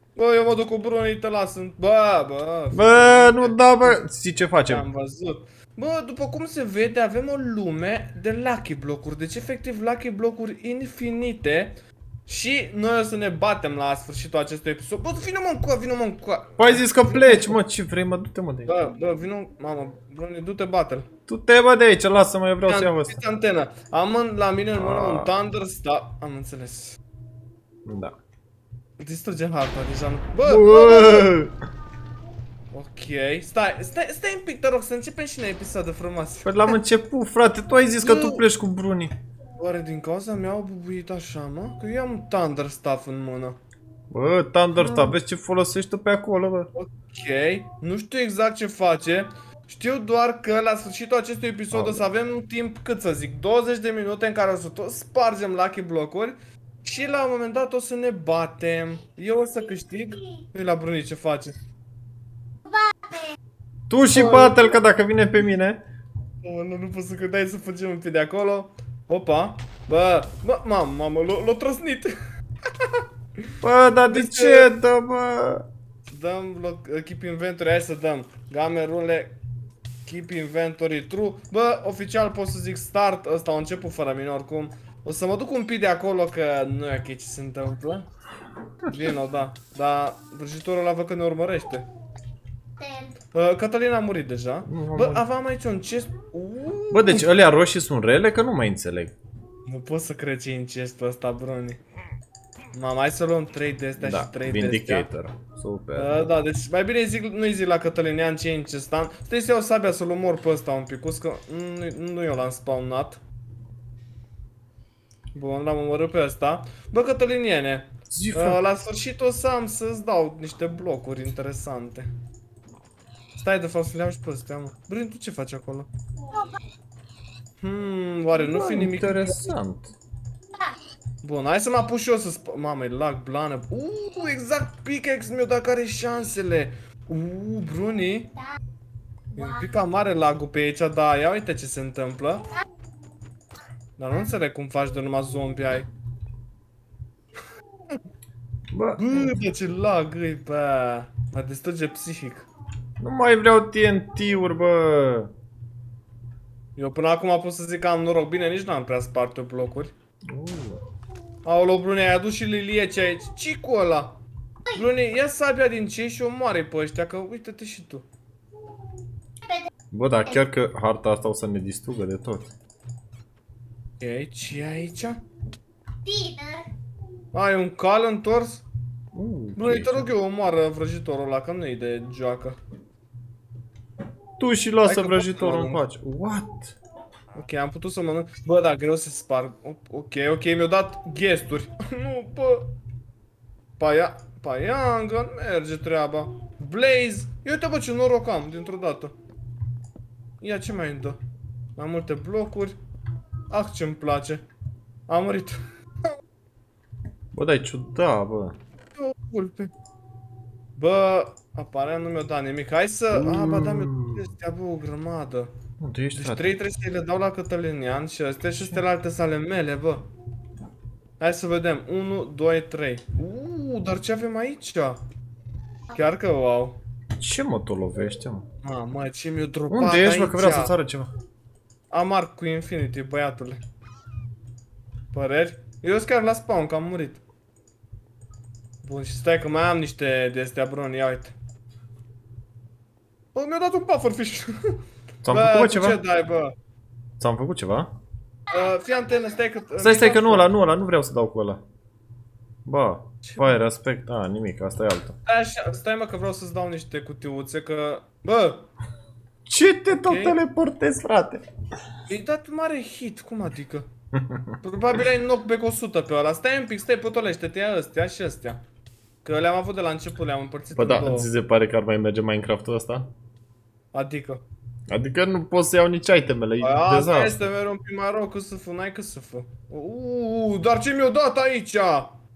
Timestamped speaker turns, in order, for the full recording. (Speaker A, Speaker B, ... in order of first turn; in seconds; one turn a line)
Speaker A: 0.1-4.0
Speaker B: 2.7-4.8
Speaker A: 4.7-17.6
Speaker B: 16.6-18.7
Speaker A: 18.7-21.1
Speaker B: 21.3-23.2
Speaker A: 22.6-27.0
Speaker B: 24.8-25.3
Speaker B: 27.9-28.1
Speaker A: 29.0-31.3
Speaker B: 30.4-31.6
Speaker A: 32.7-36.8
Speaker B: 36.4-39.1
Speaker A: 38.0-38.4
Speaker A: 39.6-43.6
Speaker B: 44.1-46.7
Speaker A: 44.8-45.1
Speaker A: 46.7-61.6
Speaker B: 51.7-52.0
Speaker C: 62.6-63.3
Speaker B: 63.9-65.8
Speaker A: 64.1-64.7
Speaker A: 66.4-72.1
Speaker A: 72.8-73.5
Speaker B: 73.6-75.7
Speaker A: 74.1-74.7
Speaker A: 76.1-79.4
Speaker A: 80.0-88.1
Speaker A: 88.8-91.8
Speaker C: 92.8-93.1
Speaker A: 93.3-97.3
Speaker B: 94.7-95.2
Speaker B: 96.9-99.1
Speaker A: 99.7-101.8
Speaker A: 102.7-105.1
Speaker B: 104.0-106.3
Speaker A: 106.0-113.2
Speaker A: 115.3-122.1
Speaker B: 118.1-118.6
Speaker A: 123.3-125.9
Speaker C: 126.3-126.6
Speaker A: 127.6-129.5
Speaker B: 128.3-129.9
Speaker A: 131.2-138.3
Speaker A: 139.3-142.4
Speaker A: 144.0-145.9
Speaker B: 148.7-149.3
Speaker A: 149.0-152.5
Speaker B: 153.0-155.3
Speaker A: 156.8-159.9
Speaker B: 160.3-160.8
Speaker A: 161.4-164.2
Speaker A: 164.7-168.1
Speaker C: 169.4-169.7
Speaker B: 169.9-172.5
Speaker A: 174.0-175.2
Speaker C: 176.0-176.7
Speaker A: 177.3-178.6
Speaker B: 179.1-180.1
Speaker A: 179.6-182.6
Speaker B: 184.4-186.8
Speaker A: 184.8-185.8
Speaker A: 187.3-192.7
Speaker A: 193.8-199.1
Speaker A: 200.4-201.2
Speaker A: 201.8-202.8
Speaker A: 203.5-204.4
Speaker A: 205.1-205.6
Speaker B: 207.3-208.6
Speaker A: 208.9-209.7
Speaker A: 210.8-215.5
Speaker B: 213.1-214.3
Speaker B: 215.8-216.5
Speaker A: 216.1-220.1
Speaker A: 221.2-225.0
Speaker A: 225.9-226.8
Speaker B: 227.2-228.4
Speaker A: 228.6-230.7
Speaker B: 229.7-231.1
Speaker A: 231.9-233.6
Speaker A: 235.1-237.2
Speaker A: 238.8-241.3
Speaker A: 243.3-244.5
Speaker B: 245.2-246.0
Speaker A: 245.2-246.5
Speaker B: 247.2-247.9
Speaker A: 248.5-250.5
Speaker B: 249.8-251.6
Speaker B: 252.6-255.2
Speaker A: 253.2-253.6
Speaker A: 255.2-258.7
Speaker B: 259.4-261.5
Speaker A: 259.9-260.4
Speaker A: 262.1-263.9
Speaker B: 264.1-264.5
Speaker A: 264.6-268.6
Speaker A: 269.2-271.3
Speaker B: 270.7-273.1
Speaker A: 273.9-274.4
Speaker B: 274.9-277.4
Speaker A: 276.6-282.2